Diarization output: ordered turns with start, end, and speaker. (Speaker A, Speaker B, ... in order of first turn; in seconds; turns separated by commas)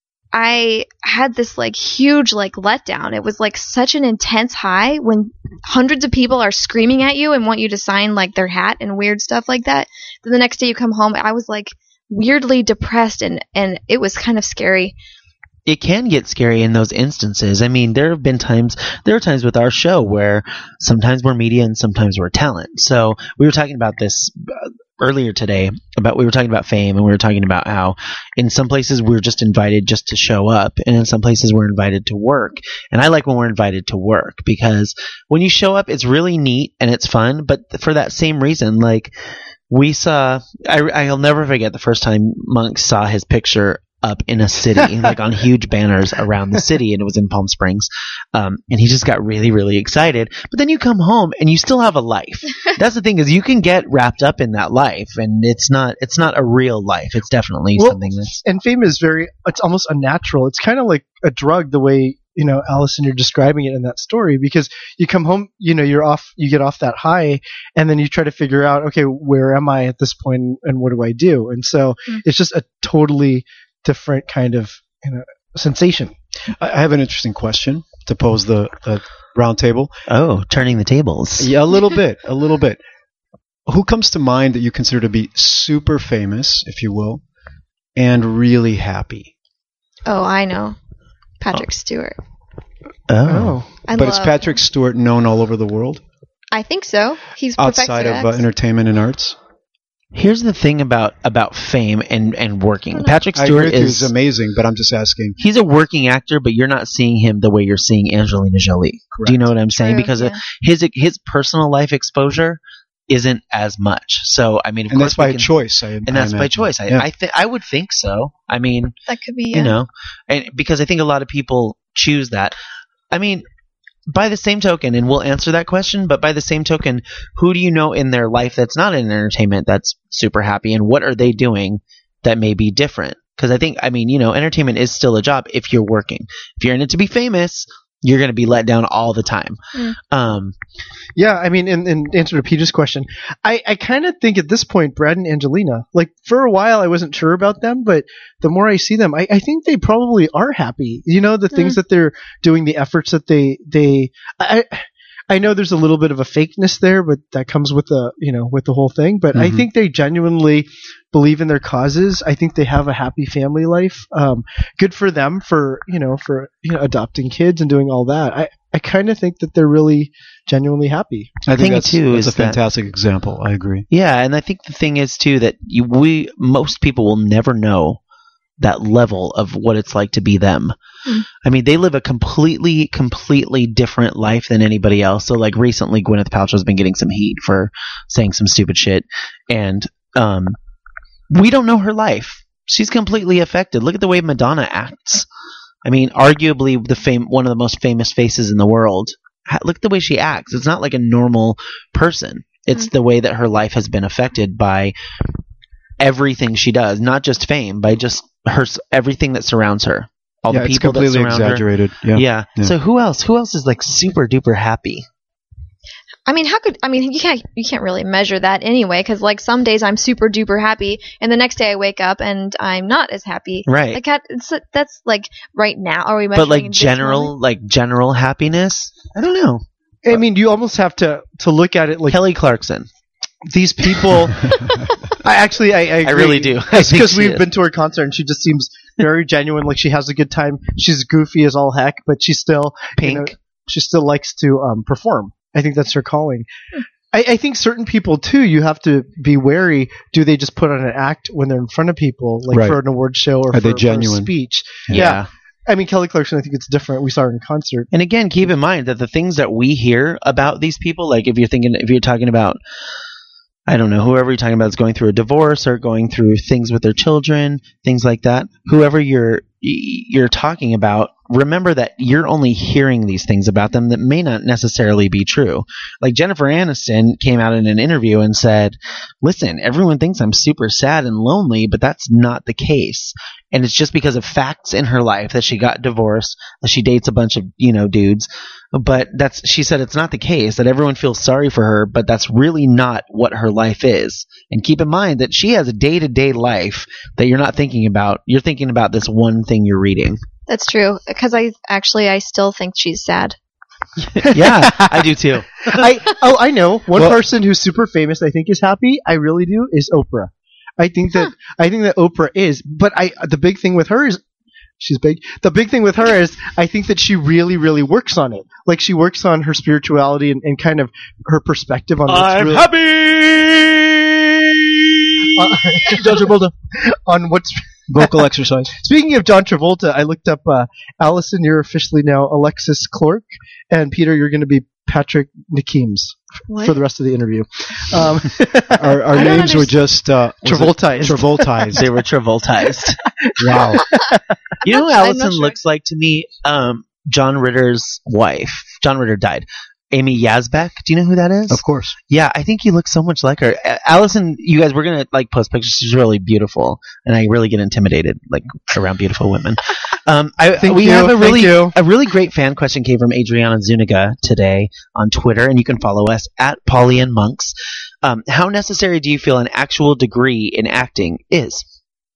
Speaker A: 0.3-14.9, Speaker B: 15.7-39.1, Speaker B: 39.7-58.4, Speaker C: 57.8-76.1, Speaker D: 76.6-79.9, Speaker B: 80.1-81.5, Speaker D: 81.4-82.8, Speaker D: 83.7-87.2, Speaker D: 88.0-89.3, Speaker A: 90.1-90.8, Speaker A: 91.4-92.2, Speaker B: 93.1-93.6, Speaker C: 93.3-93.7, Speaker A: 93.9-94.6, Speaker D: 93.9-96.0, Speaker A: 96.5-98.5, Speaker D: 97.6-99.4, Speaker B: 100.1-104.1, Speaker A: 102.9-103.2, Speaker D: 103.3-105.4, Speaker B: 105.4-115.5, Speaker D: 109.1-109.5, Speaker A: 109.7-110.4, Speaker D: 114.9-117.1, Speaker B: 116.1-119.0, Speaker A: 119.1-119.8, Speaker B: 119.5-122.5, Speaker B: 123.1-123.5, Speaker B: 124.1-139.6, Speaker B: 140.1-140.5, Speaker C: 141.2-171.4, Speaker D: 171.4-173.9, Speaker B: 171.5-172.6, Speaker B: 173.9-178.0, Speaker B: 178.6-180.7, Speaker B: 181.4-190.6, Speaker B: 191.3-195.3, Speaker B: 195.8-204.9, Speaker B: 206.0-215.1, Speaker D: 210.5-212.8, Speaker A: 216.3-227.3, Speaker B: 223.7-224.0, Speaker B: 226.3-230.2, Speaker C: 230.1-232.2, Speaker B: 232.1-232.9, Speaker C: 233.5-246.5, Speaker B: 236.0-237.5, Speaker B: 243.0-243.3, Speaker C: 247.1-257.9, Speaker D: 252.5-252.8, Speaker D: 253.5-254.3, Speaker B: 254.9-255.3, Speaker B: 257.9-262.6, Speaker B: 263.7-300.2, Speaker A: 300.5-303.4, Speaker B: 304.2-305.9, Speaker C: 304.2-305.1, Speaker C: 305.7-314.2, Speaker C: 314.8-322.7, Speaker B: 322.1-326.4, Speaker C: 325.4-339.6, Speaker D: 327.9-328.7, Speaker A: 336.5-336.8, Speaker D: 338.7-341.9, Speaker A: 339.1-339.7, Speaker C: 340.4-341.8, Speaker B: 341.7-343.0, Speaker C: 343.2-344.2, Speaker D: 343.4-343.9, Speaker A: 344.6-345.6, Speaker B: 344.6-371.6, Speaker D: 351.5-352.0, Speaker C: 360.6-361.8